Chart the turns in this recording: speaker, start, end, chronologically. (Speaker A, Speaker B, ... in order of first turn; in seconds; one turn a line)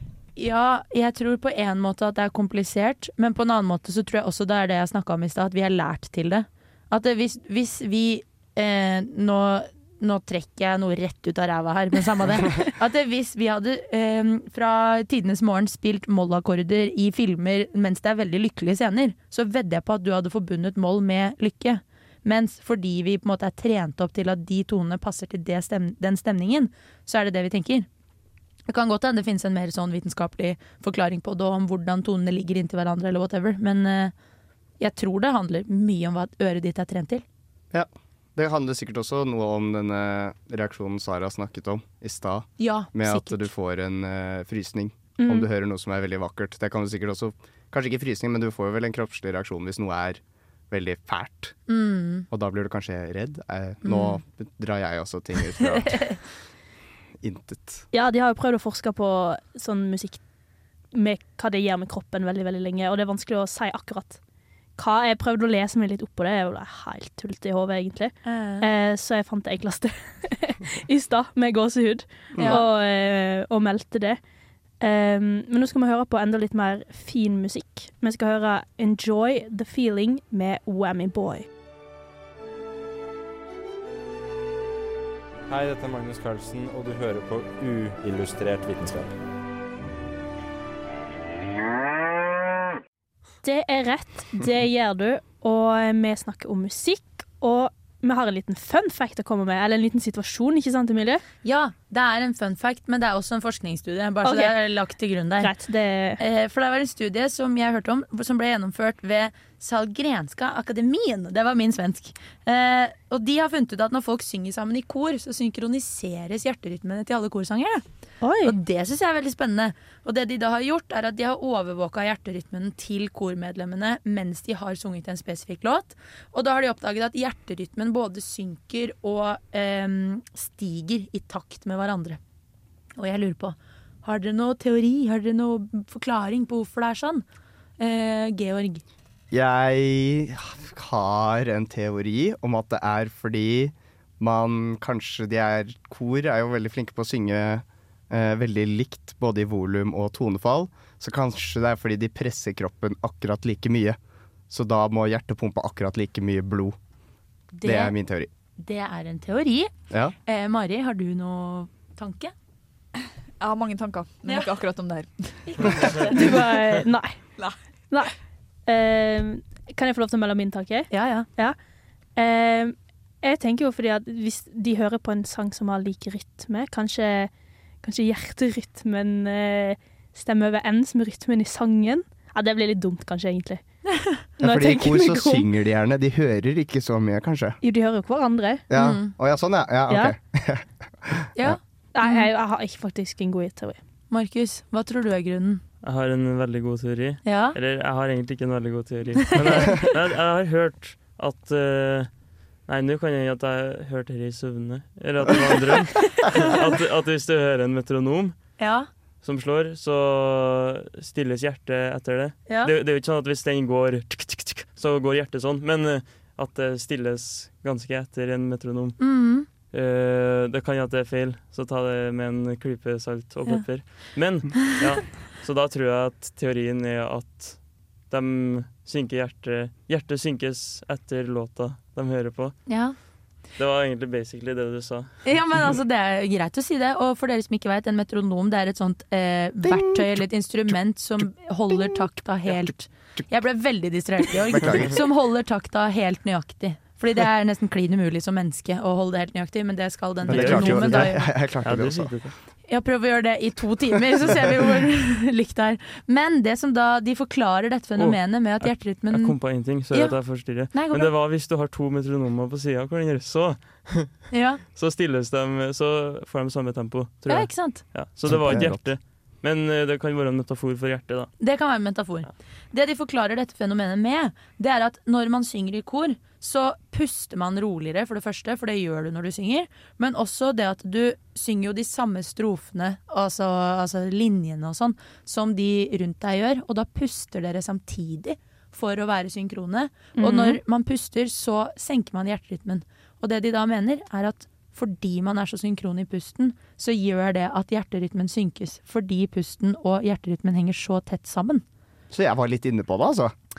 Speaker A: 0.3-27.9
Speaker A: 28.7-34.1
Speaker A: 34.8-37.2
Speaker B: 37.7-51.6
Speaker A: 42.6-43.5
Speaker C: 45.2-45.5
Speaker A: 51.7-52.2
Speaker B: 52.3-56.2
Speaker A: 53.8-54.2
Speaker B: 57.2-57.8
Speaker C: 57.9-60.2
Speaker C: 60.9-64.2
Speaker C: 64.8-74.2
Speaker A: 68.2-68.7
Speaker B: 72.3-72.6
Speaker A: 72.4-72.6
Speaker C: 74.8-81.5
Speaker D: 85.5-89.1
Speaker C: 93.4-101.2
Speaker A: 101.4-105.5
Speaker C: 104.2-104.5
Speaker C: 105.4-106.2
Speaker A: 106.2-117.8
Speaker C: 118.2-118.5
Speaker A: 118.4-132.2
Speaker A: 133.0-137.2
Speaker A: 137.8-138.8
Speaker B: 139.3-154.0
Speaker B: 154.5-156.8
Speaker A: 157.6-157.9
Speaker B: 157.6-158.3
Speaker A: 158.6-159.7
Speaker A: 160.2-162.3
Speaker E: 163.4-166.1
Speaker A: 165.5-166.2
Speaker C: 166.1-167.2
Speaker C: 167.9-168.1
Speaker C: 168.7-171.6
Speaker A: 170.9-171.3
Speaker C: 172.2-177.3
Speaker C: 177.8-183.6
Speaker A: 183.9-184.2
Speaker B: 184.4-187.6
Speaker C: 184.4-185.4
Speaker C: 187.6-188.6
Speaker B: 188.7-191.6
Speaker A: 188.7-189.1
Speaker C: 189.9-190.1
Speaker A: 191.3-192.3
Speaker C: 191.9-193.8
Speaker A: 194.1-195.6
Speaker F: 195.8-202.1
Speaker A: 197.2-197.6
Speaker F: 202.7-208.3
Speaker A: 208.6-208.9
Speaker F: 209.2-219.0
Speaker A: 219.0-219.5
Speaker F: 219.7-232.7
Speaker A: 232.7-232.9
Speaker F: 233.6-235.2
Speaker A: 235.2-251.3
Speaker B: 239.6-240.7
Speaker B: 241.7-242.0
Speaker B: 242.6-243.2
Speaker B: 244.4-245.0
Speaker B: 250.2-252.1
Speaker F: 250.3-252.3
Speaker A: 252.7-259.4
Speaker F: 258.0-264.2
Speaker A: 259.9-261.1
Speaker A: 264.3-264.6
Speaker F: 264.7-271.3
Speaker A: 267.3-268.8
Speaker B: 268.2-268.9
Speaker A: 271.4-301.6
Speaker C: 290.1-290.6
Speaker B: 302.1-303.3